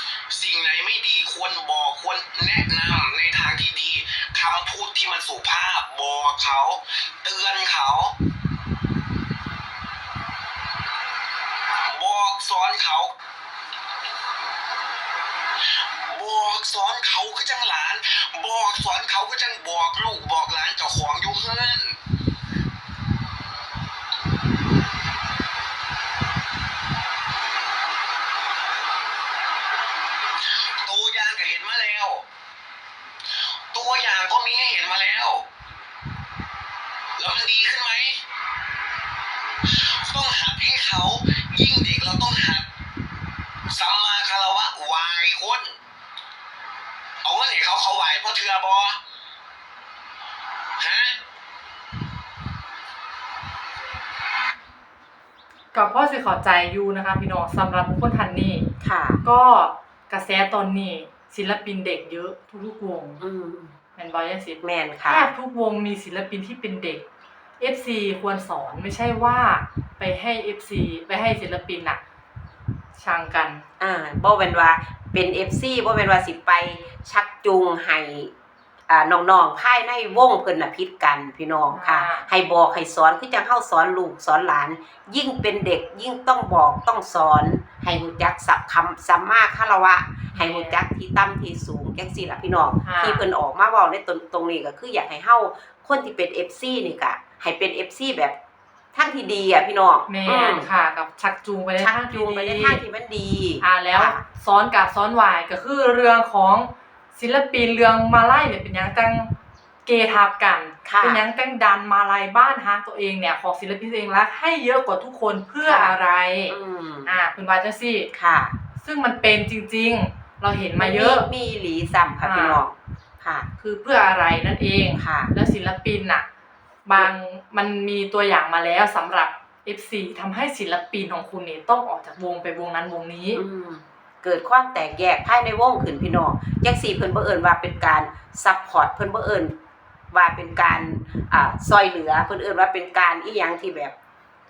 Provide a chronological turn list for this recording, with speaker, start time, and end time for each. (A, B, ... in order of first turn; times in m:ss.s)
0:00.3-0:08.2 A
0:11.9-0:13.1 A
0:16.1-0:22.0 A
0:30.8-0:32.2 A
0:33.7-0:35.5 A
0:37.2-0:38.2 A
0:39.7-0:42.7 A
0:43.7-0:45.8 A
0:47.2-0:49.0 A
0:50.8-0:51.2 A
0:55.7-0:58.7 B
0:58.8-0:59.2 C
0:59.2-1:03.2 B
1:03.2-1:03.8 C
1:04.0-1:07.0 B
1:04.6-1:05.3 C
1:07.6-1:12.0 B
1:13.0-1:13.7 B
1:13.8-1:18.3 C
1:18.9-1:38.4 C
1:21.7-1:22.3 B
1:30.3-1:30.8 B
1:32.8-1:33.3 B
1:38.9-1:40.7 C
1:40.1-1:42.8 B
1:41.8-1:44.2 C
1:43.6-1:49.3 B
1:49.8-1:58.1 B
1:50.8-1:51.2 C
1:55.7-1:56.0 C
1:56.5-1:57.2 C
1:58.1-1:58.6 C
1:58.8-2:01.3 B
2:00.8-2:03.5 C
2:02.2-2:02.6 B
2:03.6-2:06.2 B
2:05.0-2:05.3 C
2:06.9-2:13.4 B
2:13.3-2:19.5 C
2:20.1-2:23.9 C